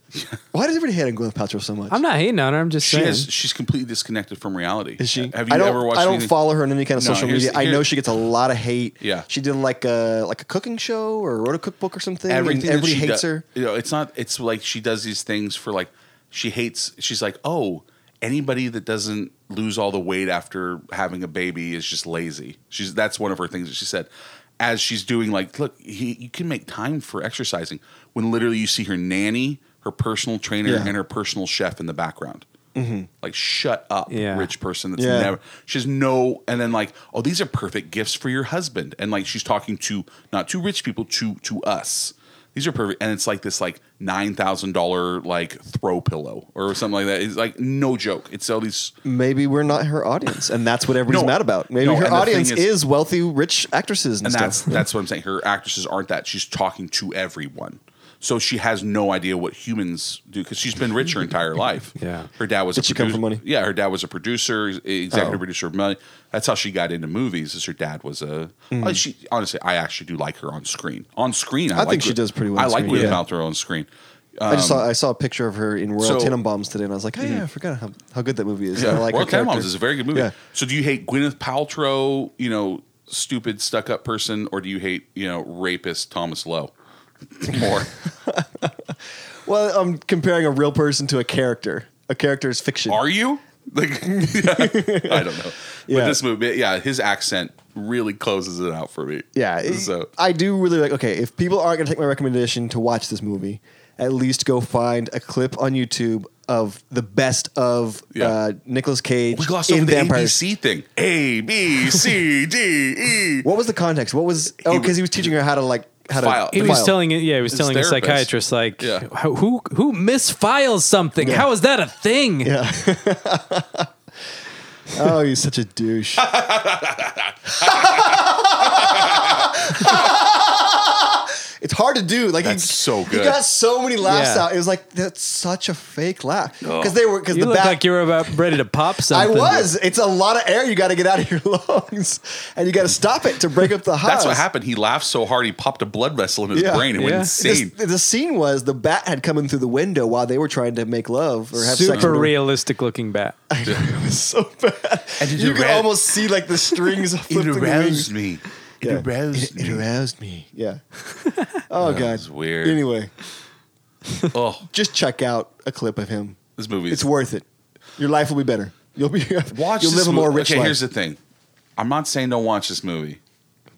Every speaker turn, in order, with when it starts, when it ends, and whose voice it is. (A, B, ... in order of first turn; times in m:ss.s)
0:00.5-0:02.0 A
0:01.9-0:03.3 B
0:02.8-0:06.3 C
0:05.0-0:13.4 A
0:07.0-0:07.9 C
0:09.0-0:09.3 C
0:12.3-0:32.5 C
0:30.6-0:30.9 A
0:32.8-0:33.1 A
0:33.2-0:48.9 C
0:34.1-0:34.5 B
0:35.0-0:35.3 A
0:49.0-0:54.8 A
0:51.1-0:52.7 C
0:54.2-1:14.9 C
1:02.0-1:02.3 B
1:02.8-1:03.4 A
1:05.1-1:05.4 A
1:08.7-1:09.0 A
1:11.7-1:13.2 A
1:12.9-1:13.2 B
1:14.5-1:20.3 A
1:16.0-1:16.4 C
1:18.8-1:26.7 C
1:27.3-1:27.9 C
1:28.3-1:28.7 A
1:29.4-1:33.0 A
1:32.9-1:40.1 C
1:34.1-1:35.4 A
1:35.9-1:36.2 A
1:39.4-1:50.4 A
1:49.3-1:53.5 C
1:53.4-1:57.0 A
1:54.5-1:55.3 C
1:56.1-1:58.3 C
1:56.5-2:02.5 B
1:58.8-1:59.1 C
2:01.2-2:01.5 A
2:02.4-2:03.9 A
2:04.9-2:06.3 A
2:06.2-2:10.0 C
2:07.6-2:17.8 A
2:12.4-2:13.4 C
2:14.0-2:14.5 B
2:16.6-2:17.0 C
2:17.3-2:19.7 B
2:19.1-2:24.4 A
2:24.0-2:27.7 C
2:26.5-2:32.3 A
2:27.0-2:27.3 B
2:31.6-2:33.4 B
2:31.9-2:32.2 C
2:33.5-2:38.1 A
2:35.2-2:36.1 C
2:37.3-2:39.8 C
2:38.8-2:40.8 A
2:41.7-2:43.1 A
2:41.8-2:42.8 C
2:44.3-2:44.7 C
2:44.7-2:46.4 A
2:46.6-2:47.1 C
2:46.9-2:47.5 A
2:48.0-2:50.8 A
2:49.5-2:51.2 C
2:51.8-2:53.2 C